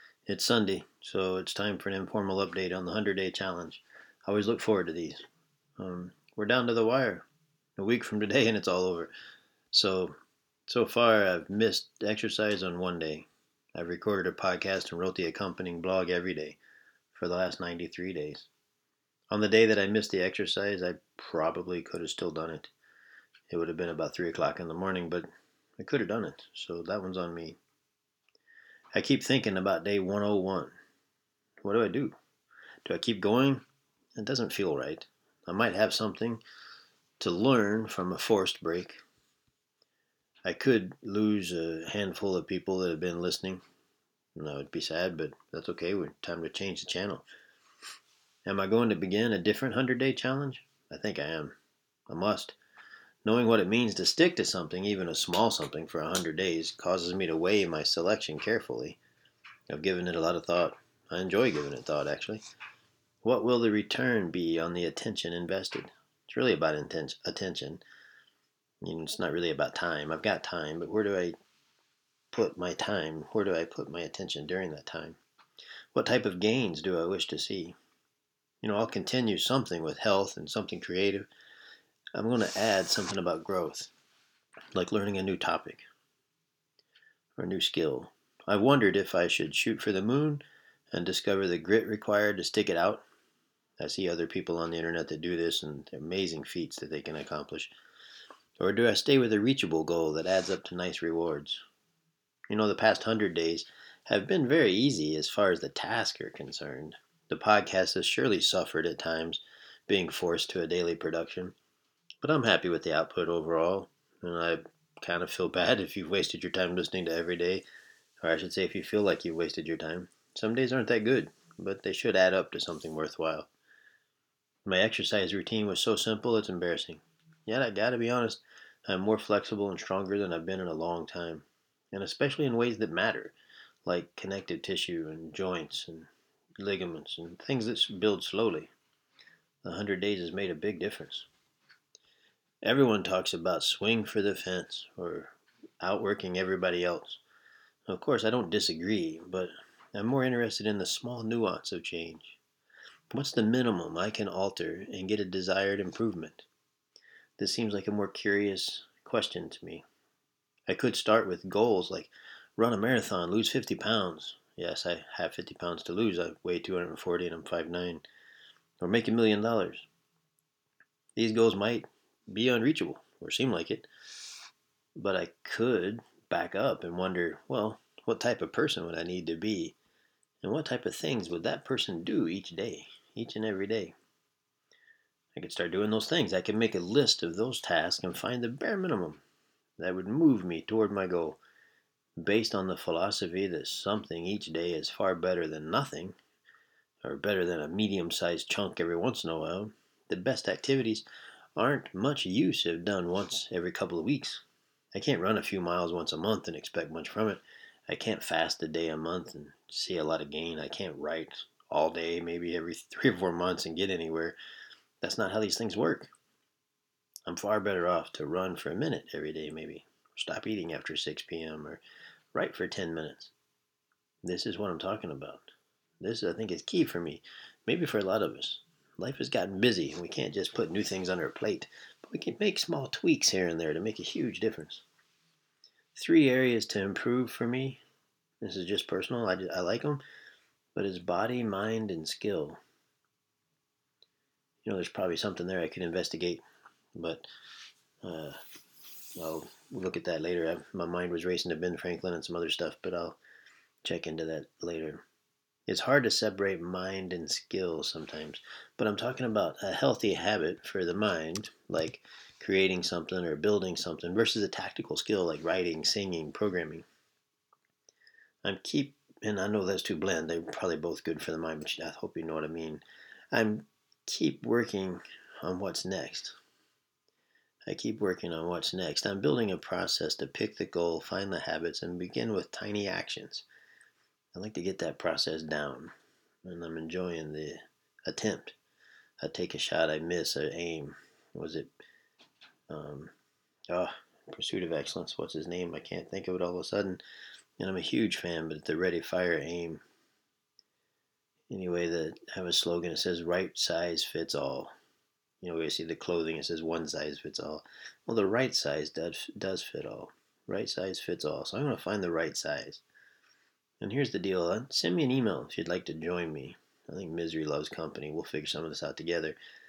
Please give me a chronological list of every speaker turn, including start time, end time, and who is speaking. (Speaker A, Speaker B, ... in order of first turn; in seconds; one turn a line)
Speaker A: 0.3-5.2
Speaker A: 5.8-9.1
Speaker A: 9.7-10.1
Speaker A: 10.7-16.6
Speaker A: 17.1-18.5
Speaker A: 19.3-22.7
Speaker A: 23.5-25.3
Speaker A: 25.8-27.6
Speaker A: 28.9-30.7
Speaker A: 31.6-32.2
Speaker A: 32.8-33.6
Speaker A: 34.1-36.4
Speaker A: 37.2-39.0
Speaker A: 40.4-43.6
Speaker A: 44.3-47.2
Speaker A: 48.5-51.5
Speaker A: 52.1-52.5
Speaker A: 53.2-59.0
Speaker A: 59.7-62.4
Speaker A: 63.2-67.8
Speaker A: 68.8-71.3
Speaker A: 72.3-75.2
Speaker A: 75.9-77.8
Speaker A: 78.6-81.3
Speaker A: 82.1-83.9
Speaker A: 84.7-85.8
Speaker A: 87.4-93.0
Speaker A: 93.8-97.7
Speaker A: 98.6-101.6
Speaker A: 102.5-111.5
Speaker A: 112.2-117.6
Speaker A: 118.2-123.5
Speaker A: 124.7-133.3
Speaker A: 133.8-138.7
Speaker A: 139.6-141.3
Speaker A: 142.6-147.2
Speaker A: 147.9-152.4
Speaker A: 153.1-156.5
Speaker A: 157.4-159.8
Speaker A: 160.7-168.0
Speaker A: 168.8-169.8
Speaker A: 171.2-173.9
Speaker A: 174.9-179.8
Speaker A: 180.4-183.9
Speaker A: 185.3-189.2
Speaker A: 189.8-191.4
Speaker A: 192.2-196.2
Speaker A: 197.0-201.0
Speaker A: 201.6-204.4
Speaker A: 204.9-214.3
Speaker A: 215.0-216.1
Speaker A: 217.2-221.8
Speaker A: 222.3-223.3
Speaker A: 224.2-225.5
Speaker A: 226.0-234.8
Speaker A: 235.9-237.8
Speaker A: 238.4-240.0
Speaker A: 240.7-242.6
Speaker A: 244.6-246.4
Speaker A: 246.9-247.2
Speaker A: 248.0-248.4
Speaker A: 249.2-253.2
Speaker A: 253.8-255.0
Speaker A: 255.7-266.9
Speaker A: 268.4-276.4
Speaker A: 277.7-283.4
Speaker A: 284.3-285.9
Speaker A: 286.4-288.6
Speaker A: 289.2-291.7
Speaker A: 292.7-293.1
Speaker A: 293.7-297.0
Speaker A: 297.6-299.8
Speaker A: 301.5-304.7
Speaker A: 305.4-312.8
Speaker A: 313.8-319.4